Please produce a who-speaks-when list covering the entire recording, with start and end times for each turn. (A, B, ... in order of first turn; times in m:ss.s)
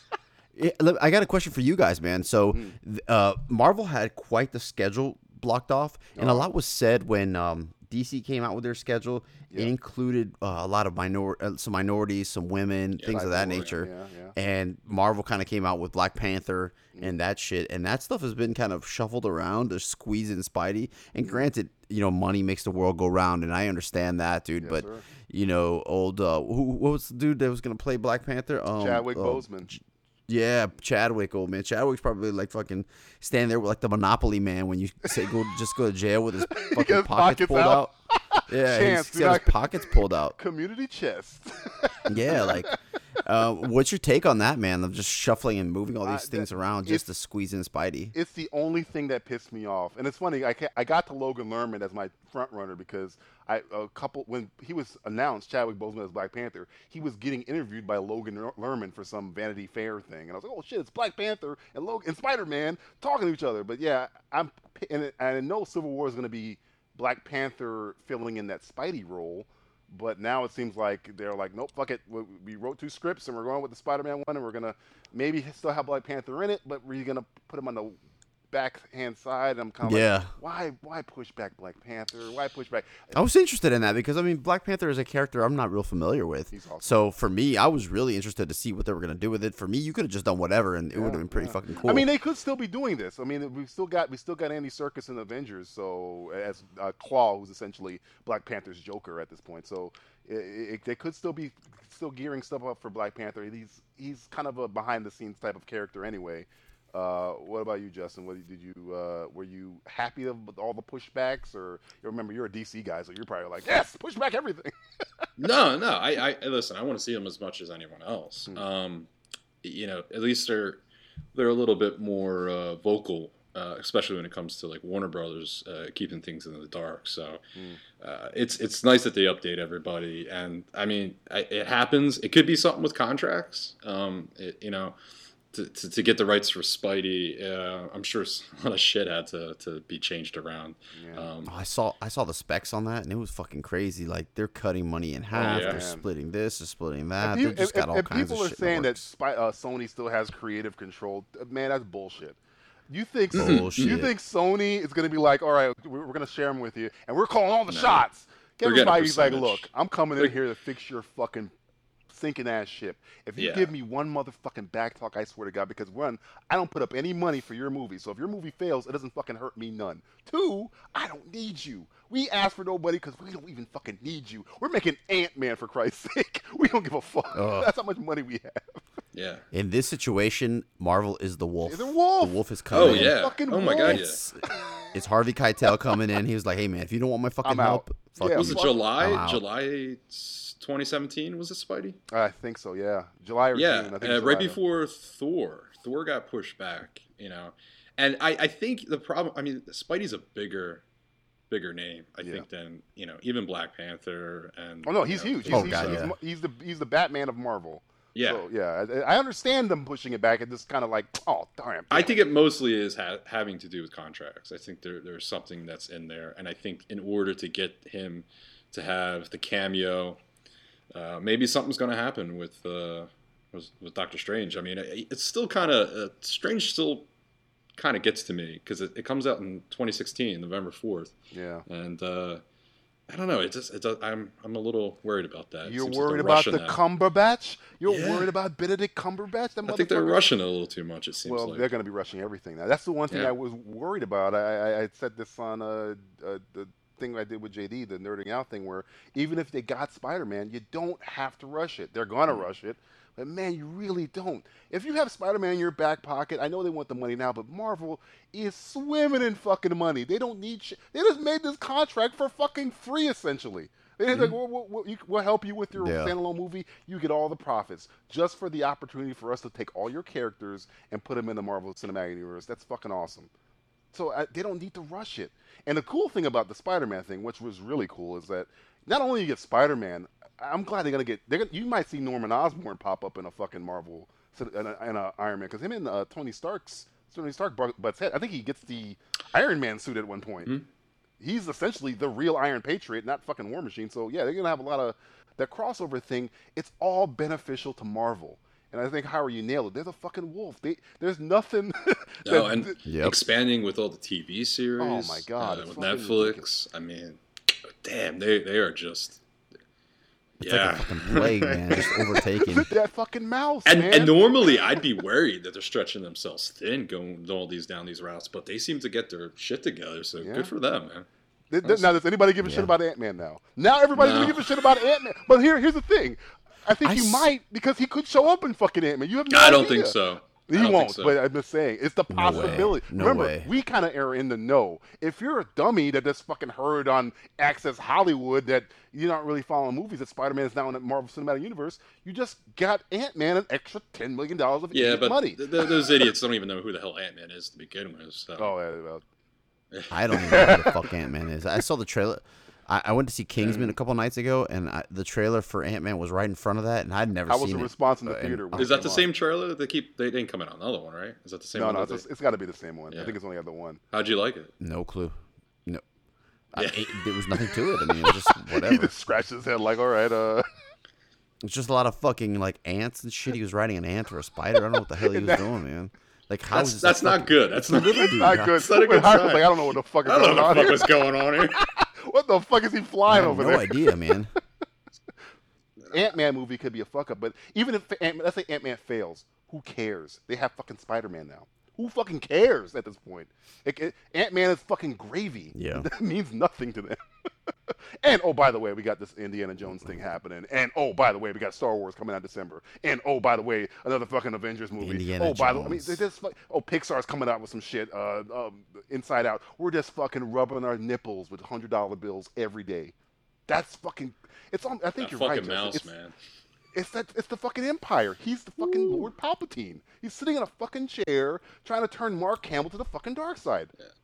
0:00.5-0:37.9 A
0:06.2-0:06.5 B
0:13.0-0:13.7 C
0:13.0-0:14.3 B
0:24.6-0:25.0 B
0:28.8-0:29.7 B
0:36.5-0:42.7 B
0:38.5-0:40.4 A
0:42.1-0:48.1 A
0:46.0-0:47.0 B
0:48.1-1:18.0 B
1:18.5-1:23.1 B
1:19.8-1:20.3 A
1:23.1-1:32.1 A
1:26.5-1:26.9 B
1:30.9-1:54.7 B
1:55.4-1:59.1 C
1:59.6-2:00.8 C
2:01.3-2:07.4 C
2:08.0-2:15.0 C
2:15.5-2:21.5 C
2:20.9-2:21.3 B
2:21.4-2:29.0 A
2:25.3-2:25.8 C
2:25.4-2:26.0 B
2:27.2-2:32.4 B
2:32.9-2:41.5 B
2:33.3-2:34.1 A
2:33.3-2:34.0 C
2:37.7-2:38.0 C
2:38.6-2:40.4 C
2:42.1-2:58.8 B
2:43.4-2:43.7 C
2:57.3-2:57.7 A
2:59.1-2:59.4 C
2:59.5-3:03.2 A
3:01.6-3:04.9 B
3:02.7-3:04.2 C
3:03.8-3:04.4 A
3:04.9-3:09.4 A
3:07.4-3:08.8 B
3:08.4-3:12.0 C
3:12.1-3:14.6 B
3:13.5-3:20.8 C
3:21.5-3:26.0 C
3:24.8-3:32.2 B
3:25.5-3:26.1 A
3:28.1-3:28.4 C
3:31.9-3:40.2 C
3:40.9-3:47.1 C
3:47.8-3:51.1 C
3:51.3-3:51.6 B
3:51.7-3:52.4 C
3:53.1-3:56.8 C
3:55.6-4:00.2 B
3:57.8-3:58.3 C
3:59.6-4:01.7 C
4:01.2-4:33.3 B
4:25.7-4:26.1 A
4:33.9-4:50.5 B
4:51.2-5:02.7 B
5:02.2-5:09.2 C
5:02.8-5:03.2 A
5:04.8-5:06.4 B
5:10.4-5:12.1 C
5:10.4-5:12.7 A
5:12.4-5:14.6 B
5:13.6-5:21.0 C
5:20.2-5:20.5 B
5:21.5-5:30.0 B
5:21.6-5:21.9 C
5:22.4-5:22.7 A
5:23.9-5:24.6 C
5:26.8-5:27.3 A
5:29.3-5:31.2 C
5:30.5-5:45.7 B
5:32.1-5:33.5 A
5:32.3-5:32.7 C
5:44.7-5:48.5 C
5:48.4-5:49.0 B
5:49.7-5:50.5 C
5:49.9-5:59.0 A
5:50.1-5:50.9 B
5:53.4-5:53.7 B
5:57.3-5:59.1 B
5:58.5-6:02.0 C
6:01.5-6:03.8 B
6:02.9-6:03.2 C
6:03.9-6:04.5 C
6:04.6-6:05.8 A
6:06.5-6:08.9 A
6:06.6-6:07.0 C
6:08.5-6:10.5 B
6:11.4-6:18.6 A
6:15.0-6:15.5 B
6:16.5-6:21.6 C
6:18.1-6:20.9 B
6:21.6-6:23.9 B
6:23.1-6:24.3 A
6:25.9-6:37.0 B
6:35.5-6:35.9 A
6:38.0-6:52.9 B
6:44.8-6:46.0 A
6:53.5-6:55.9 B
6:55.0-6:56.1 C
6:56.7-7:03.7 B